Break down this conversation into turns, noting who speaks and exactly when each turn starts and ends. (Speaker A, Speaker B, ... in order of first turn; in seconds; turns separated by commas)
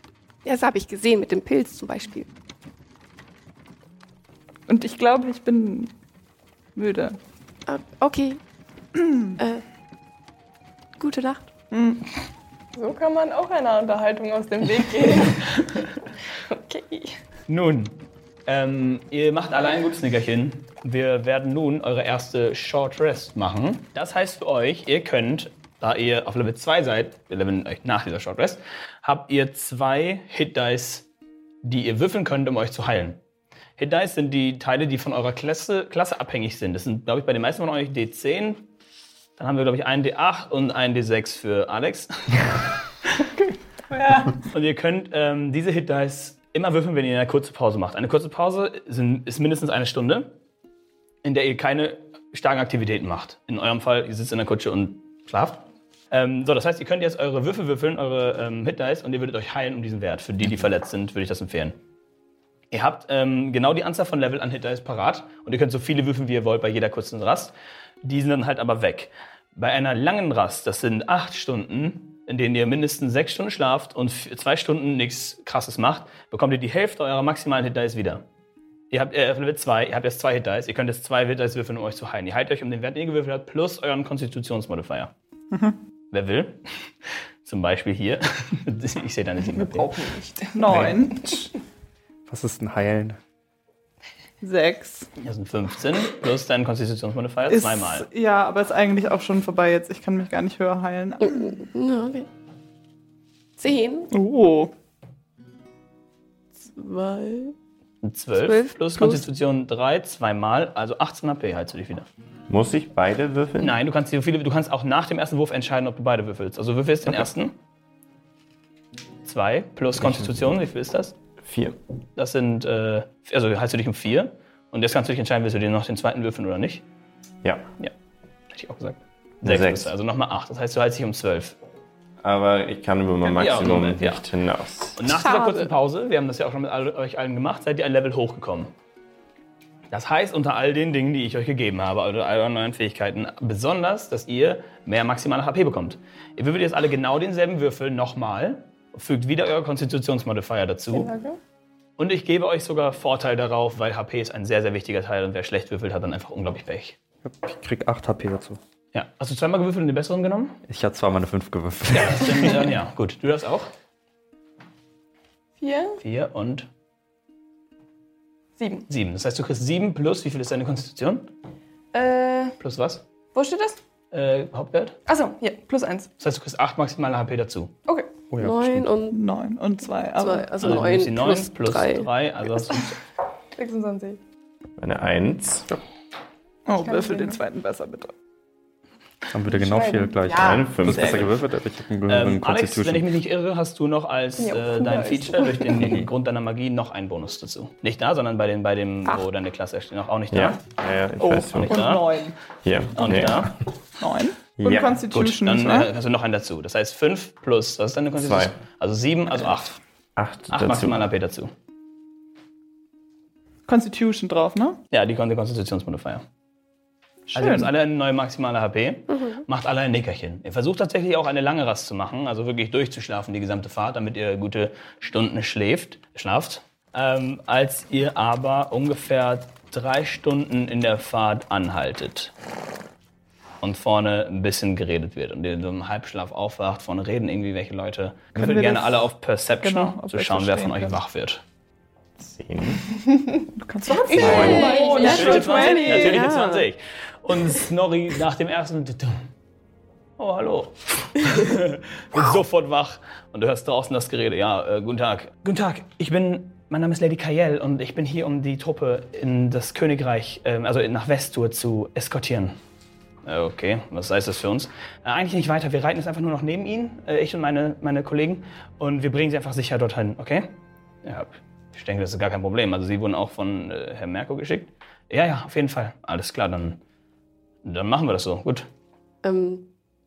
Speaker A: 0.5-2.3, Speaker B: 4.7-6.0, Speaker B: 6.8-7.2, Speaker A: 7.7-8.4, Speaker B: 8.9-9.4, Speaker A: 9.4-9.6, Speaker A: 11.0-11.5, Speaker B: 11.7-12.0, Speaker C: 12.8-15.5, Speaker C: 16.5-17.2, Speaker D: 17.5-31.1, Speaker D: 31.6-33.2, Speaker D: 33.8-38.7, Speaker D: 39.4-42.5, Speaker C: 43.9-44.4, Speaker D: 44.4-50.4, Speaker D: 51.2-61.8, Speaker D: 62.7-78.2, Speaker D: 78.9-85.1, Speaker D: 86.1-86.9, Speaker D: 87.4-89.9, Speaker C: 89.5-91.5, Speaker B: 90.5-91.5, Speaker E: 90.7-91.0, Speaker E: 92.3-93.2, Speaker B: 94.4-95.1, Speaker D: 95.2-98.1, Speaker B: 97.5-101.5, Speaker A: 101.2-102.3, Speaker A: 103.6-104.1, Speaker B: 104.1-104.7, Speaker A: 106.6-107.5, Speaker D: 108.0-112.0, Speaker A: 108.3-109.2, Speaker F: 112.5-113.8, Speaker D: 113.6-117.5, Speaker D: 119.2-121.2, Speaker F: 121.4-121.8, Speaker D: 122.2-126.8, Speaker D: 128.5-131.6, Speaker F: 129.4-129.9, Speaker F: 132.2-135.0, Speaker D: 133.2-134.2, Speaker D: 135.0-138.7, Speaker A: 135.1-135.7, Speaker D: 139.9-151.1, Speaker C: 150.9-151.4, Speaker D: 152.0-157.0, Speaker E: 157.2-158.6, Speaker D: 158.9-160.6, Speaker E: 160.7-162.7, Speaker D: 161.9-163.7, Speaker C: 165.6-166.0, Speaker D: 166.0-166.7, Speaker C: 168.6-168.8, Speaker D: 168.9-171.3, Speaker C: 171.9-172.6, Speaker D: 172.6-173.1, Speaker C: 173.3-173.8, Speaker D: 174.1-175.0, Speaker C: 175.1-176.1, Speaker D: 176.2-177.7, Speaker C: 177.9-178.2, Speaker E: 178.3-178.9, Speaker A: 178.4-179.2, Speaker B: 179.1-180.5, Speaker A: 180.2-182.1, Speaker D: 180.6-182.9, Speaker C: 183.6-184.2, Speaker F: 184.8-185.7, Speaker B: 186.7-188.1, Speaker C: 186.8-187.4, Speaker E: 189.3-193.1, Speaker C: 189.5-191.3, Speaker F: 190.4-191.4, Speaker D: 192.1-200.6, Speaker C: 194.4-195.9, Speaker F: 200.3-202.0, Speaker B: 201.2-202.4, Speaker D: 201.5-202.0, Speaker F: 202.6-203.5, Speaker D: 203.0-203.5, Speaker B: 203.0-203.4, Speaker B: 204.0-205.9, Speaker F: 204.6-205.0, Speaker D: 205.1-209.8, Speaker F: 208.2-208.6, Speaker F: 210.2-211.0, Speaker D: 210.5-211.5, Speaker B: 213.7-214.8, Speaker D: 214.9-216.2, Speaker B: 217.3-217.7, Speaker D: 217.3-232.3, Speaker A: 219.1-219.4, Speaker D: 233.6-241.4, Speaker B: 238.4-241.0, Speaker F: 242.2-242.8, Speaker C: 243.1-246.3, Speaker B: 243.6-245.6, Speaker A: 244.2-246.7, Speaker D: 244.3-249.2, Speaker D: 250.2-262.6, Speaker D: 263.2-276.8, Speaker D: 277.6-278.7, Speaker A: 279.2-279.7